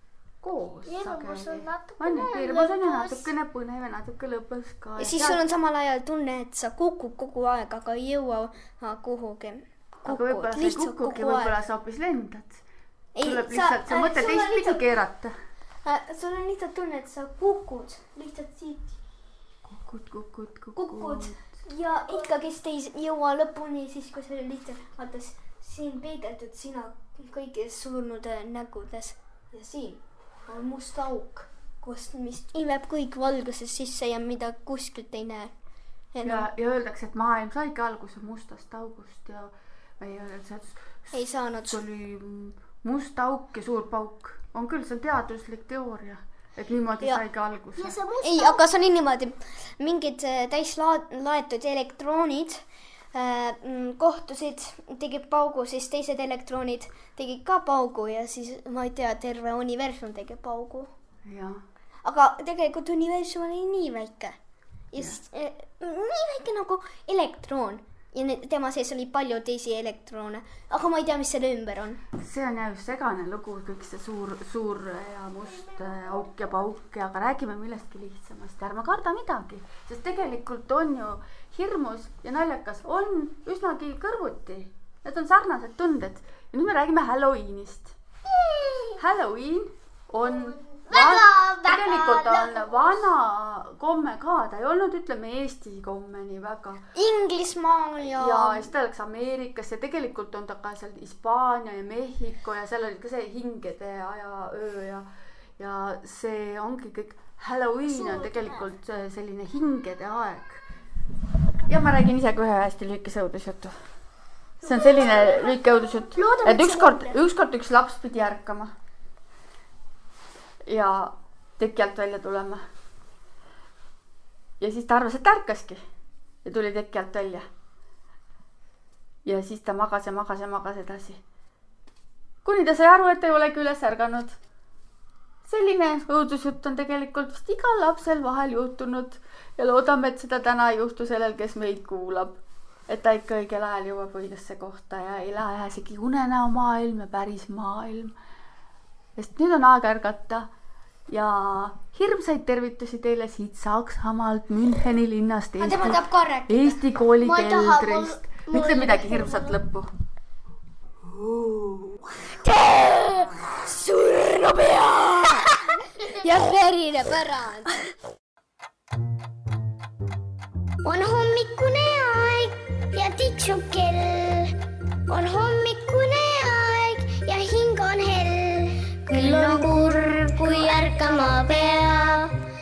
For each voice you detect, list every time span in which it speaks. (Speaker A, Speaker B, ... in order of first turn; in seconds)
Speaker A: 0.4-5.4, 10.1-12.6, 13.2-15.3, 19.6-21.4, 36.2-48.0, 61.2-61.6, 72.2-88.0, 89.0-96.8, 98.2-105.1, 105.6-110.7, 111.7-113.8, 114.6-118.7, 120.7-122.6, 124.6-125.8, 126.5-127.5, 129.2-131.2, 132.4-134.4, 135.5-148.1, 149.2-150.5, 151.1-159.9, 161.2-162.0
Speaker B: 0.9-3.3, 47.8-48.6, 88.3-89.0, 90.7-92.8, 108.0-108.4, 116.3-116.9, 157.2-159.6, 170.8-174.6, 175.1-182.4
Speaker C: 5.0-11.6, 13.1-15.0, 15.8-19.0, 20.8-35.5, 36.1-36.5, 41.1-41.8, 48.2-60.9, 62.0-64.4, 64.9-72.0, 97.0-98.7, 155.6-156.8, 162.4-167.9